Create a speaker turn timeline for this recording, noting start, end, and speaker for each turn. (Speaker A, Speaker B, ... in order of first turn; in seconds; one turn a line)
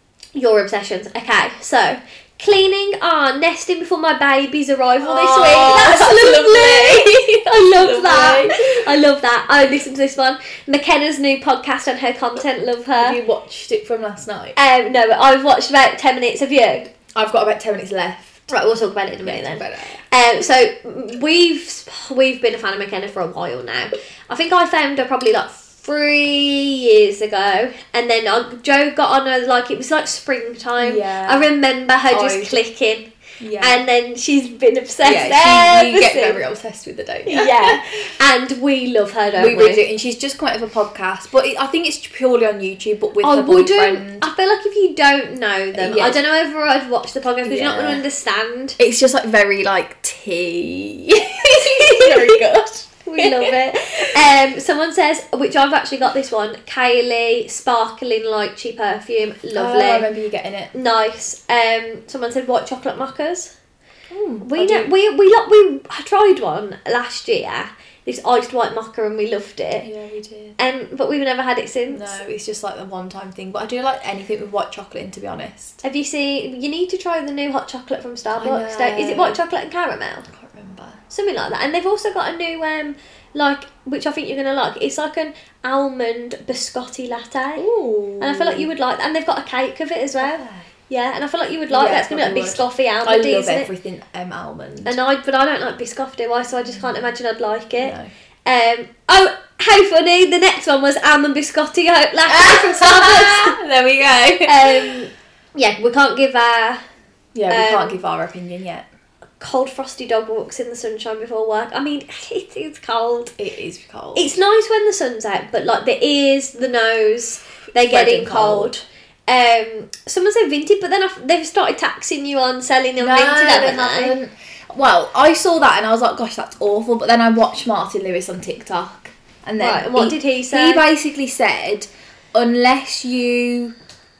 Speaker A: 0.3-13.2
Speaker B: 5.0-8.8
Speaker B: 13.0-14.6
Speaker A: 14.5-16.9
Speaker B: 17.1-18.5
Speaker A: 18.5-36.4
Speaker B: 19.2-20.0
Speaker B: 30.8-31.5
Speaker B: 32.1-32.6
Speaker B: 33.4-33.8
Speaker B: 35.0-38.1
Speaker A: 37.2-39.8
Speaker B: 39.4-44.2
Speaker A: 43.2-48.8
Speaker B: 45.7-46.2
Speaker B: 47.4-48.0
Speaker B: 48.8-54.1
Speaker A: 51.5-52.4
Speaker A: 53.0-60.1
Speaker B: 59.5-60.7
Speaker A: 60.7-63.5
Speaker B: 64.1-64.9
Speaker A: 64.4-69.9
Speaker B: 69.8-70.6
Speaker A: 70.6-72.1
Speaker B: 71.9-75.8
Speaker A: 75.8-80.2
Speaker B: 78.3-79.4
Speaker B: 80.2-81.0
Speaker A: 81.1-87.6
Speaker B: 87.6-88.7
Speaker A: 88.2-93.7
Speaker B: 90.2-90.7
Speaker B: 91.7-95.0
Speaker A: 94.8-103.6
Speaker B: 97.8-98.1
Speaker B: 102.3-104.9
Speaker A: 104.5-106.8
Speaker B: 107.3-108.9
Speaker A: 107.5-108.0
Speaker A: 109.4-113.3
Speaker B: 113.4-114.3
Speaker A: 114.1-124.1
Speaker B: 117.8-118.7
Speaker B: 123.0-133.7
Speaker A: 129.6-130.8